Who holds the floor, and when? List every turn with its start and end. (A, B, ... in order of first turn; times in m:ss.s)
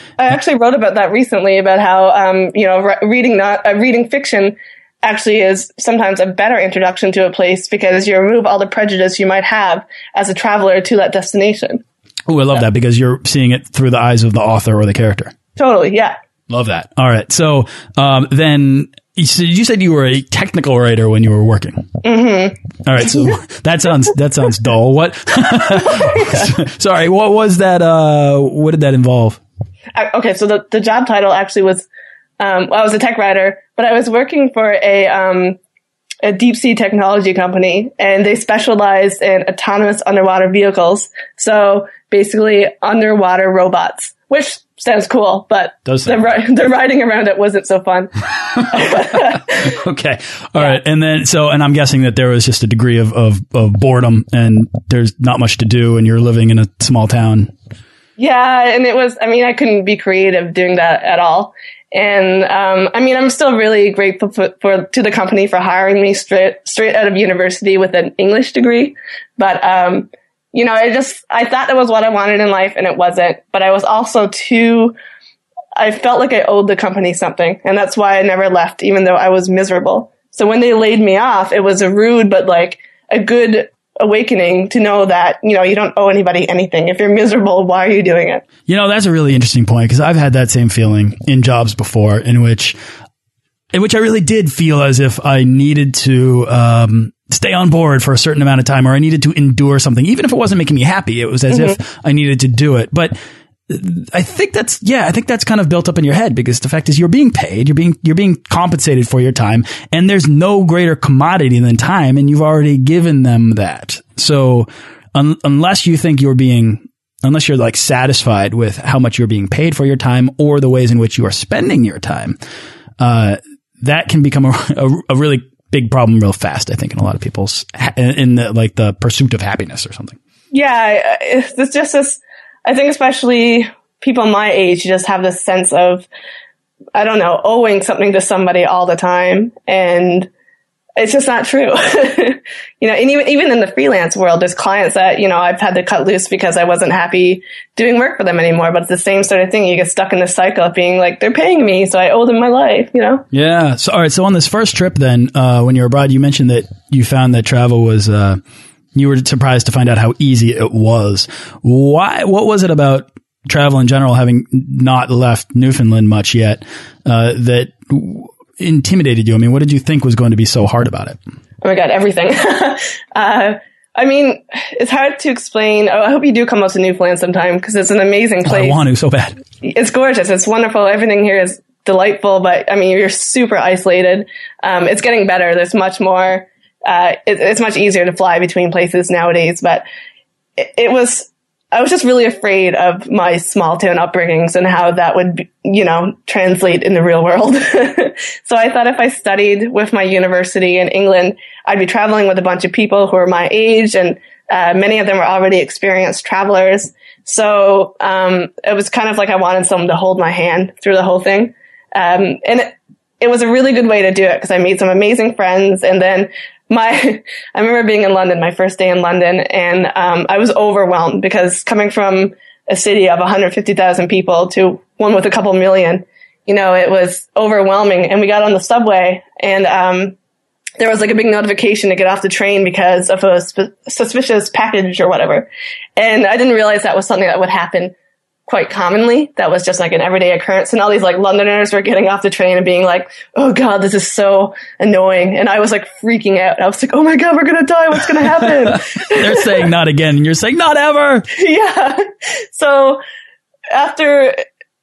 0:00.2-0:11.8 A
0:12.3-0:15.3 B
0:15.6-0:16.2 A
0:16.5-0:21.9 B
0:22.0-0:22.6 A
0:22.8-0:29.4 B
0:25.7-0:26.5 A
0:29.9-0:31.9 A
0:32.4-0:35.6 A
0:36.2-0:49.8 A
0:45.9-0:46.3 B
0:48.7-0:57.5 B
0:58.2-1:15.0 A
1:15.8-1:28.4 A
1:28.7-1:32.8 B
1:33.7-1:43.1 B
1:41.5-1:41.8 A
1:43.7-2:02.4 B
2:03.0-2:10.2 B
2:10.5-2:16.1 A
2:16.9-2:20.3 A
2:21.0-2:33.2 A
2:33.3-2:38.4 B
2:38.9-2:51.2 B
2:51.6-2:58.8 A
2:58.4-2:59.4 B
2:59.6-3:09.8 A
3:10.6-3:50.2 A
3:50.8-3:58.0 A
3:58.5-4:09.7 A
4:08.4-4:11.3 B
4:11.3-4:13.0 A
4:13.7-4:14.4 A